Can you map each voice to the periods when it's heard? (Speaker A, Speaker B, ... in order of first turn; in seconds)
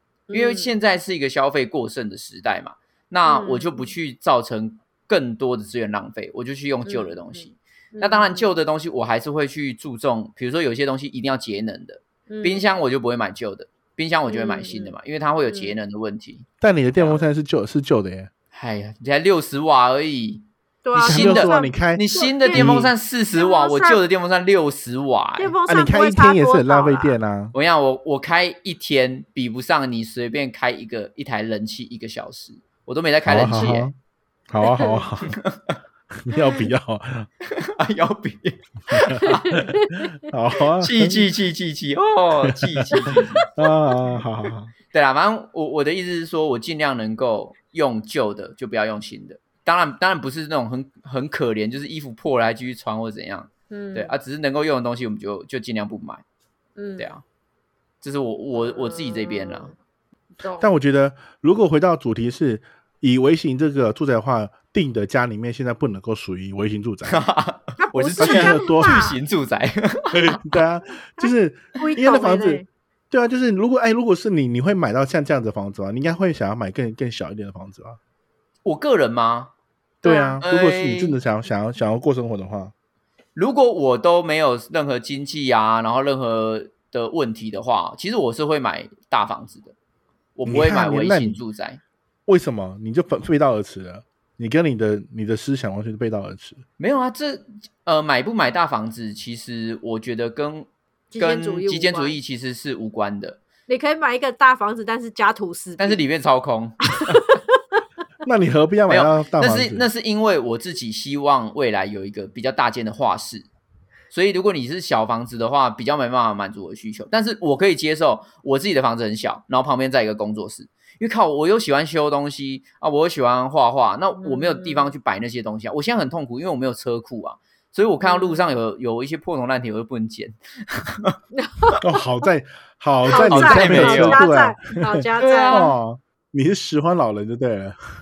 Speaker A: 0.3-0.7, 3.2-3.9, 6.8-8.4, 12.3-12.6, 14.3-14.9, 15.5-15.8, 20.8-22.7, 23.4-24.0, 25.4-27.2, 34.6-35.0, 39.2-40.1, 42.9-43.5, 53.7-54.1, 56.8-57.1, 58.5-59.7, 60.4-60.7, 67.8-69.2, 71.2-72.7, 80.0-80.4, 101.1-102.2, 103.7-106.0, 124.2-124.9, 128.0-128.4, 131.3-131.8, 133.1-135.7
Speaker B: 0.3-17.2, 18.5-20.4, 20.9-25.5, 27.5-33.9, 35.2-35.8, 37.5-39.6, 40.8-43.4, 44.9-56.2, 57.0-57.2, 58.0-59.7, 67.0-70.4, 78.6-79.5, 80.4-81.2, 83.3-89.7, 90.3-91.8, 96.8-103.4, 105.8-107.3, 108.9-113.5, 114.1-131.2, 133.1-134.2, 135.2-135.7
Speaker C: 16.6-18.3, 21.0-22.9, 25.7-27.5, 33.2-33.9, 34.5-35.4, 36.2-37.3, 38.9-39.6, 40.2-41.3, 42.4-44.7, 60.6-67.2, 68.2-69.0, 70.1-78.0, 80.0-82.7, 90.5-91.4, 92.3-96.6, 108.2-109.8, 131.8-137.8